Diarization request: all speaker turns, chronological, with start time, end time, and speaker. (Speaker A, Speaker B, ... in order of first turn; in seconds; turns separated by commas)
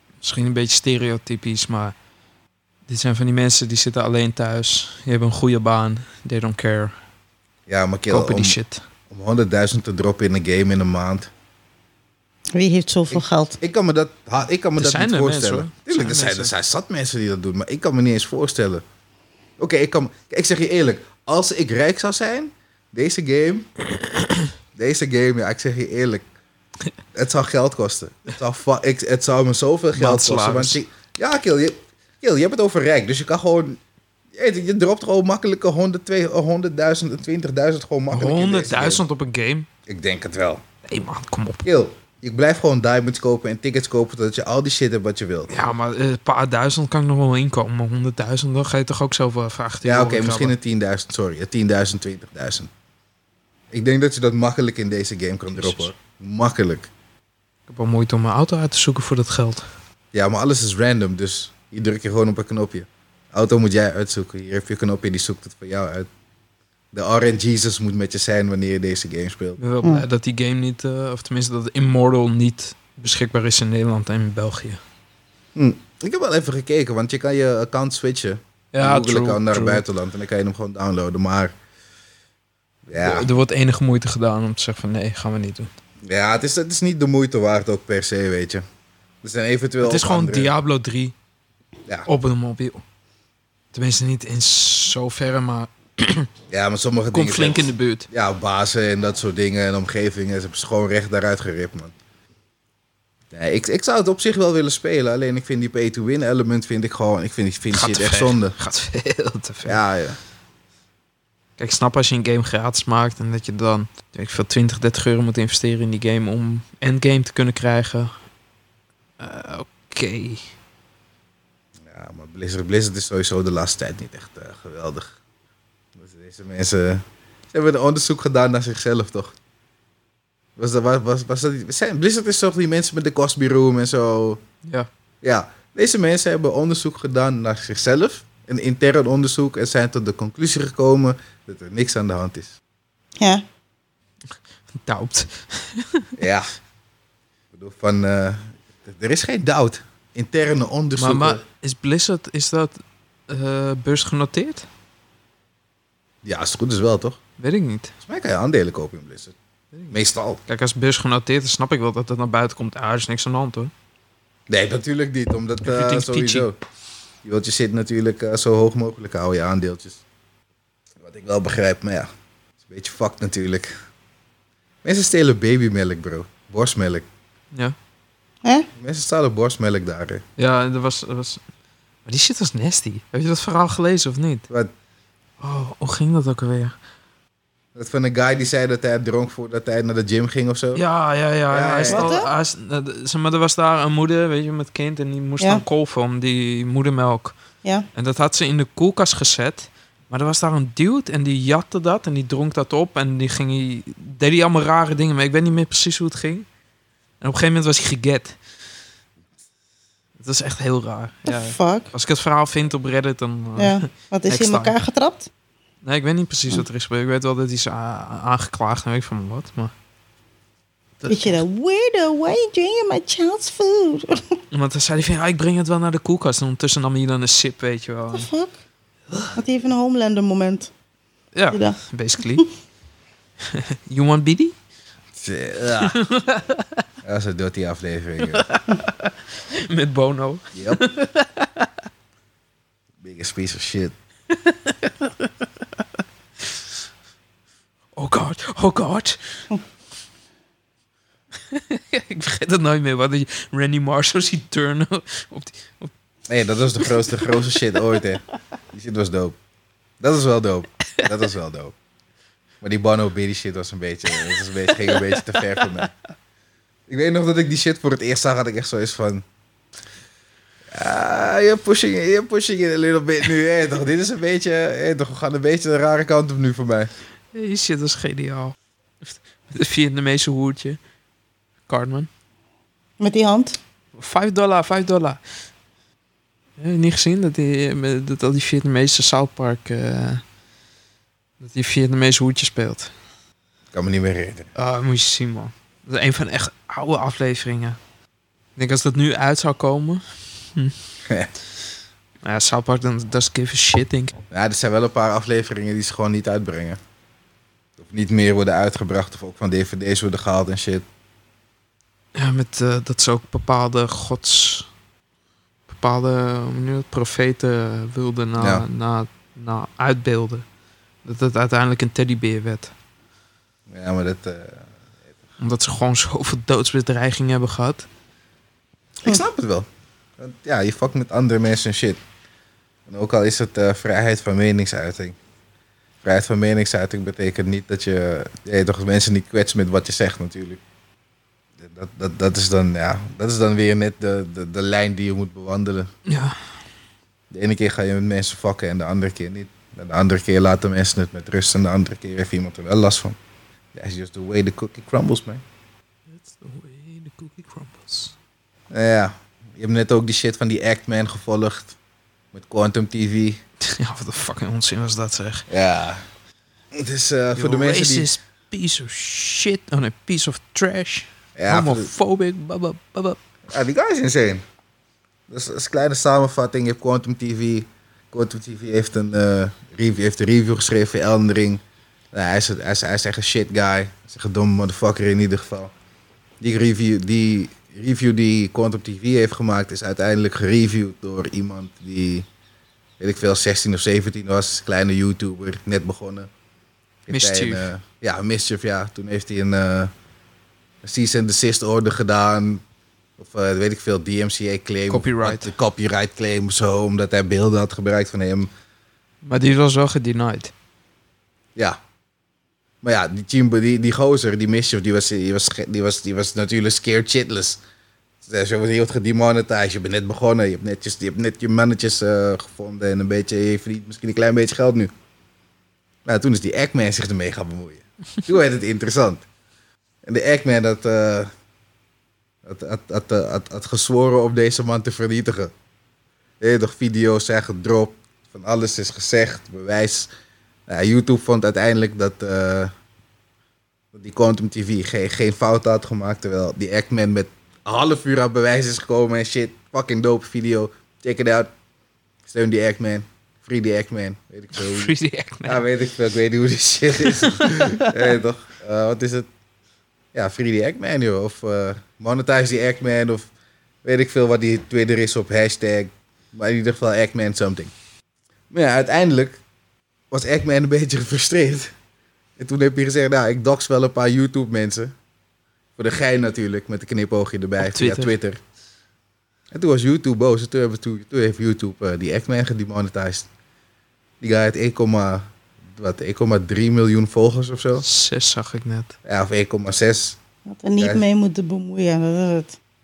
Speaker A: 0.2-1.9, Speaker A: 2.9-6.9, Speaker B: 7.7-8.6, Speaker A: 8.1-8.8, Speaker B: 9.1-11.3, Speaker C: 12.5-13.6, Speaker B: 13.1-18.8, Speaker A: 14.8-16.5, Speaker B: 19.6-23.7, Speaker B: 24.7-26.2, Speaker B: 27.1-33.8, Speaker A: 29.9-30.8, Speaker B: 34.3-39.0, Speaker A: 38.1-39.7, Speaker B: 39.9-40.6, Speaker A: 40.9-41.6, Speaker B: 41.6-45.5, Speaker A: 45.5-50.5, Speaker B: 49.8-52.7, Speaker B: 53.7-56.9, Speaker A: 55.5-55.9, Speaker A: 57.7-59.6, Speaker B: 60.1-66.1, Speaker B: 66.9-69.6, Speaker A: 69.6-74.8, Speaker B: 75.5-81.5, Speaker A: 78.7-79.8, Speaker B: 82.8-83.3, Speaker A: 83.0-85.7, Speaker B: 86.0-88.6, Speaker B: 89.2-90.5, Speaker A: 89.8-91.1, Speaker A: 92.1-92.8, Speaker A: 93.7-96.3, Speaker B: 96.5-101.9, Speaker A: 97.1-98.1, Speaker B: 103.3-108.5, Speaker A: 107.7-109.8, Speaker B: 109.6-110.2, Speaker A: 111.6-118.1, Speaker A: 119.2-120.5, Speaker B: 121.8-125.2, Speaker B: 125.9-129.3, Speaker B: 130.6-134.4, Speaker B: 135.2-142.6, Speaker A: 144.7-146.1, Speaker B: 146.2-146.5, Speaker B: 147.5-151.4, Speaker A: 151.0-154.7, Speaker B: 156.2-157.2, Speaker A: 157.4-157.9, Speaker B: 158.0-159.3, Speaker B: 159.9-160.4, Speaker A: 160.5-163.7, Speaker B: 164.5-166.6, Speaker A: 165.6-166.5, Speaker B: 167.2-170.0, Speaker B: 171.0-172.1, Speaker B: 172.6-173.7, Speaker B: 174.8-177.1, Speaker B: 178.8-180.2, Speaker A: 180.4-181.4, Speaker A: 182.1-184.5, Speaker A: 185.4-186.7, Speaker B: 187.7-190.8, Speaker A: 190.7-197.3, Speaker B: 191.5-192.1, Speaker C: 191.9-192.3, Speaker A: 197.9-206.4, Speaker A: 207.2-208.4, Speaker A: 210.2-214.7, Speaker C: 211.2-211.9, Speaker C: 213.6-215.3, Speaker A: 215.8-219.7, Speaker A: 221.0-221.4, Speaker C: 221.1-224.2, Speaker A: 224.5-228.3, Speaker C: 228.1-228.5, Speaker C: 229.3-230.7, Speaker A: 231.3-232.4, Speaker C: 231.5-231.8, Speaker A: 233.4-234.5, Speaker B: 235.1-236.0, Speaker A: 235.8-236.8, Speaker B: 237.0-238.5, Speaker A: 238.2-241.7, Speaker B: 240.5-240.8, Speaker B: 243.0-243.9, Speaker A: 244.3-245.3, Speaker A: 247.9-249.4, Speaker A: 251.5-255.9, Speaker B: 256.3-259.4, Speaker A: 256.9-257.2, Speaker B: 260.0-261.7, Speaker B: 262.6-265.9, Speaker A: 264.2-265.4, Speaker B: 266.9-269.2, Speaker B: 270.7-276.9, Speaker A: 277.3-280.8, Speaker A: 281.7-282.1, Speaker C: 283.0-283.6, Speaker A: 283.9-285.2, Speaker A: 286.6-290.2, Speaker A: 291.4-292.9, Speaker B: 293.7-294.5, Speaker A: 294.6-297.8, Speaker A: 298.6-300.0, Speaker B: 301.1-301.3, Speaker A: 302.2-304.1, Speaker B: 304.3-306.8, Speaker B: 307.8-310.8, Speaker A: 312.1-314.7, Speaker A: 315.7-320.4, Speaker B: 318.4-318.6, Speaker A: 321.0-322.7, Speaker B: 323.7-324.7, Speaker A: 325.4-327.9, Speaker B: 329.0-329.7, Speaker B: 330.2-332.0, Speaker B: 332.9-335.2, Speaker B: 336.0-340.6, Speaker B: 341.6-345.9, Speaker A: 346.1-346.4, Speaker B: 347.3-353.2, Speaker B: 353.7-355.4, Speaker A: 356.1-358.1, Speaker B: 358.7-361.8, Speaker B: 362.3-363.4, Speaker A: 363.6-365.4, Speaker B: 365.5-366.0, Speaker B: 366.7-368.1, Speaker A: 367.4-373.2, Speaker B: 371.4-371.9, Speaker B: 373.5-374.4, Speaker B: 375.3-381.6, Speaker B: 382.1-385.7, Speaker B: 386.4-392.3, Speaker B: 393.0-396.3, Speaker B: 397.1-399.9, Speaker A: 397.1-397.6, Speaker B: 400.8-402.6, Speaker B: 403.2-408.5, Speaker A: 404.9-405.5, Speaker A: 409.2-410.5, Speaker B: 412.8-417.6, Speaker B: 418.2-424.9, Speaker B: 426.1-429.2, Speaker B: 430.0-431.3, Speaker B: 432.4-435.5, Speaker B: 436.4-440.1, Speaker B: 440.7-442.7, Speaker B: 443.9-451.5, Speaker B: 452.2-454.9, Speaker A: 454.6-455.6, Speaker B: 455.4-459.3, Speaker A: 457.0-458.0, Speaker B: 460.1-463.3, Speaker B: 463.8-467.7, Speaker B: 468.5-469.4, Speaker B: 470.1-471.7, Speaker B: 472.4-474.9, Speaker B: 475.8-478.4, Speaker A: 477.6-478.1, Speaker B: 479.5-483.3, Speaker B: 484.2-487.8, Speaker A: 487.8-488.9, Speaker B: 489.0-490.2, Speaker C: 490.5-492.6, Speaker B: 490.8-491.0